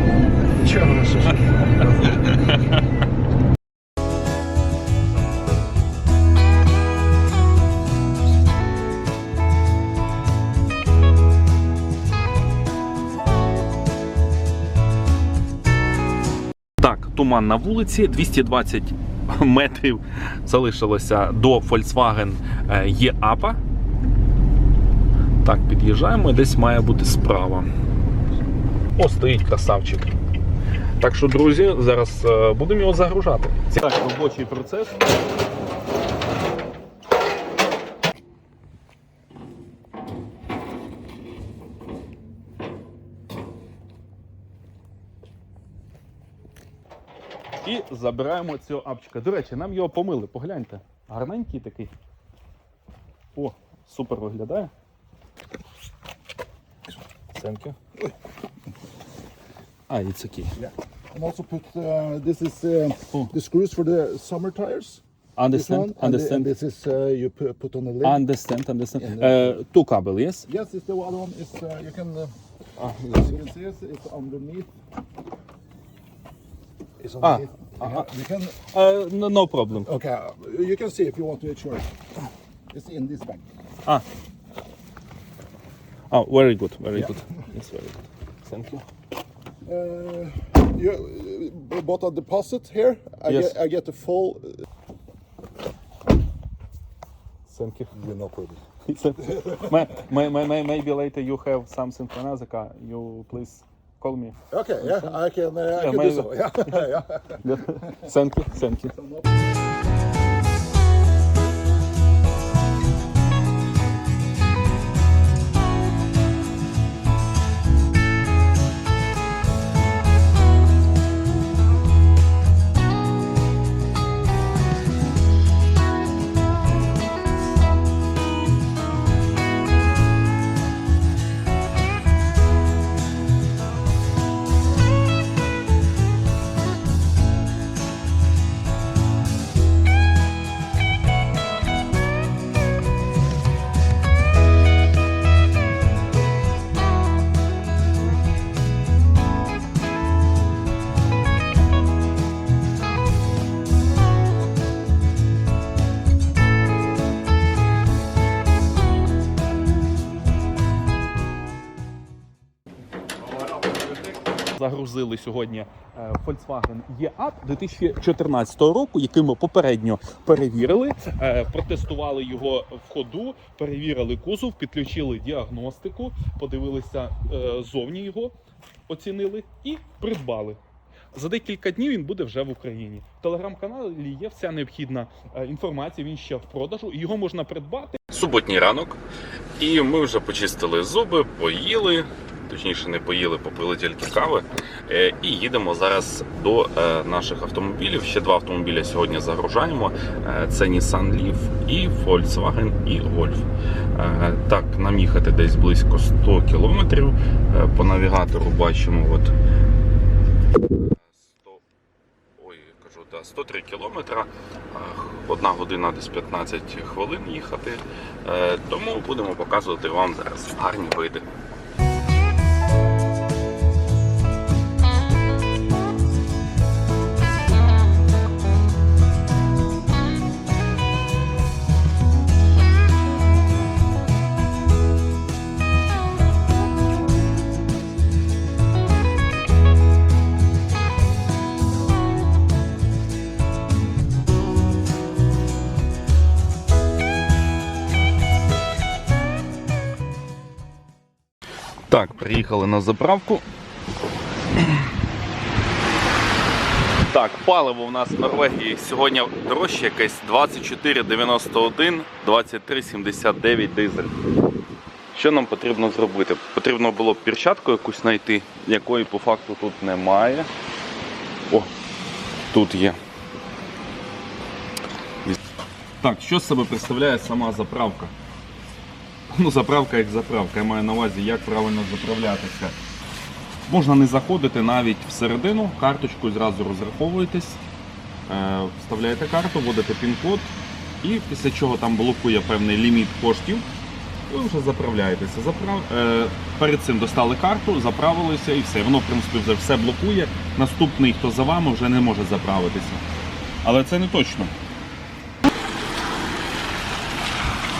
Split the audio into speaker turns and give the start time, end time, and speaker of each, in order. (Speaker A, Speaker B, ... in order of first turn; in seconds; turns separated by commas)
Speaker A: 0.6-2.1, Speaker B: 1.8-2.8, Speaker B: 16.8-23.6, Speaker B: 25.4-27.7, Speaker B: 28.9-30.1, Speaker B: 31.0-35.0, Speaker B: 47.6-51.9, Speaker B: 53.3-54.7, Speaker B: 57.3-57.8, Speaker B: 59.9-60.6, Speaker A: 60.6-68.2, Speaker B: 65.4-66.5, Speaker B: 68.0-70.5, Speaker A: 69.0-69.6, Speaker A: 70.5-72.3, Speaker B: 72.8-73.2, Speaker A: 73.1-74.7, Speaker A: 77.0-78.5, Speaker B: 77.2-78.1, Speaker B: 78.7-79.9, Speaker A: 79.8-81.9, Speaker A: 82.7-83.5, Speaker B: 86.1-88.8, Speaker A: 89.7-94.6, Speaker B: 93.3-93.6, Speaker B: 97.5-97.9, Speaker A: 98.0-98.6, Speaker B: 98.8-105.2, Speaker A: 104.5-107.2, Speaker B: 105.7-109.0, Speaker B: 164.5-178.3, Speaker B: 178.9-180.6, Speaker B: 181.1-189.0, Speaker B: 189.6-209.3, Speaker B: 210.9-211.6, Speaker B: 212.4-221.2, Speaker B: 251.9-253.4, Speaker B: 257.1-264.1, Speaker B: 265.1-270.5, Speaker B: 272.5-273.0, Speaker B: 276.0-278.1, Speaker B: 279.3-282.8, Speaker B: 283.7-287.6, Speaker B: 288.3-293.6, Speaker B: 294.3-303.0, Speaker B: 303.6-304.5